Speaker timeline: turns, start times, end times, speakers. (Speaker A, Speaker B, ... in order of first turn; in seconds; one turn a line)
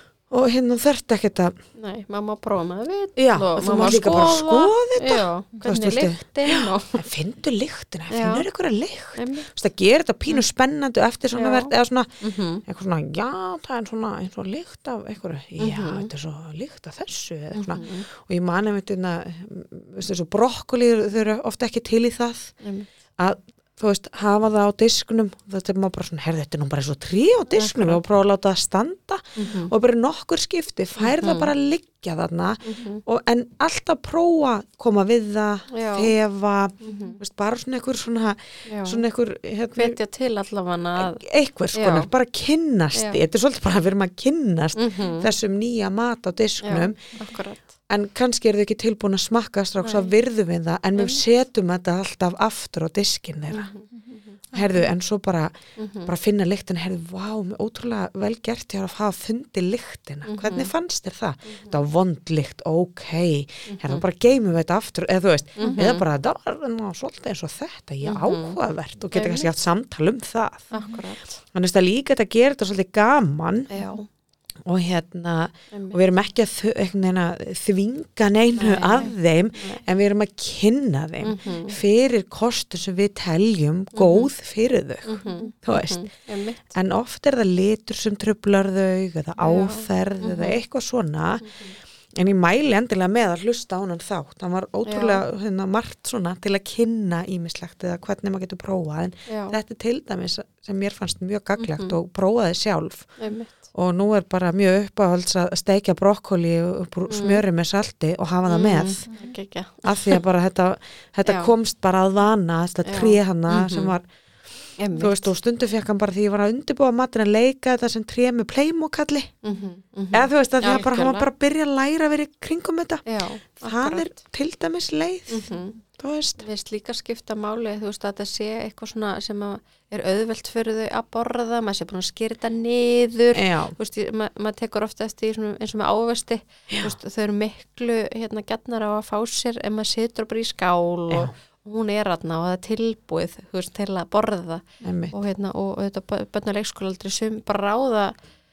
Speaker A: 0.3-1.6
Speaker B: 1.8-7.0
Speaker A: 3.2-12.1
Speaker B: 8.1-8.5
Speaker B: 9.2-9.5
Speaker B: 11.3-12.6
Speaker A: 12.7-22.6
Speaker B: 15.6-16.1
Speaker B: 17.5-18.1
Speaker B: 22.6-22.9
Speaker A: 23.2-40.0
Speaker B: 27.5-28.0
Speaker B: 29.4-29.7
Speaker B: 31.0-31.5
Speaker B: 32.6-33.0
Speaker B: 35.7-36.1
Speaker B: 36.8-37.2
Speaker B: 38.7-39.0
Speaker B: 39.8-42.1
Speaker A: 41.0-47.0
Speaker B: 42.9-43.2
Speaker B: 44.8-45.3
Speaker B: 46.6-47.6
Speaker A: 47.9-53.7
Speaker B: 49.8-50.1
Speaker B: 51.0-51.2
Speaker B: 53.5-54.9
Speaker A: 54.5-70.7
Speaker B: 55.8-56.1
Speaker B: 60.3-60.7
Speaker B: 61.5-61.8
Speaker B: 63.7-64.0
Speaker B: 65.6-66.0
Speaker B: 68.0-68.6
Speaker B: 69.1-69.5
Speaker B: 70.7-71.4
Speaker A: 71.5-73.7
Speaker B: 73.7-74.0
Speaker A: 74.7-86.1
Speaker B: 75.7-76.0
Speaker B: 78.6-79.8
Speaker B: 81.2-81.8
Speaker B: 83.9-84.3
Speaker B: 85.1-86.7
Speaker A: 86.7-91.6
Speaker B: 89.4-90.6
Speaker B: 91.5-91.7
Speaker A: 92.2-103.2
Speaker B: 94.9-95.2
Speaker B: 99.3-99.6
Speaker B: 101.6-102.0
Speaker B: 103.2-103.5
Speaker A: 103.7-109.0
Speaker B: 107.1-107.4
Speaker B: 108.5-110.2
Speaker A: 109.8-114.0
Speaker B: 111.2-111.5
Speaker B: 112.8-113.9
Speaker B: 114.8-115.3
Speaker A: 114.9-119.3
Speaker B: 119.4-121.3
Speaker A: 120.1-123.1
Speaker B: 123.1-124.2
Speaker A: 123.6-126.4
Speaker B: 125.3-125.8
Speaker B: 126.4-148.1
Speaker A: 133.3-133.8
Speaker A: 136.7-136.9
Speaker A: 144.8-145.1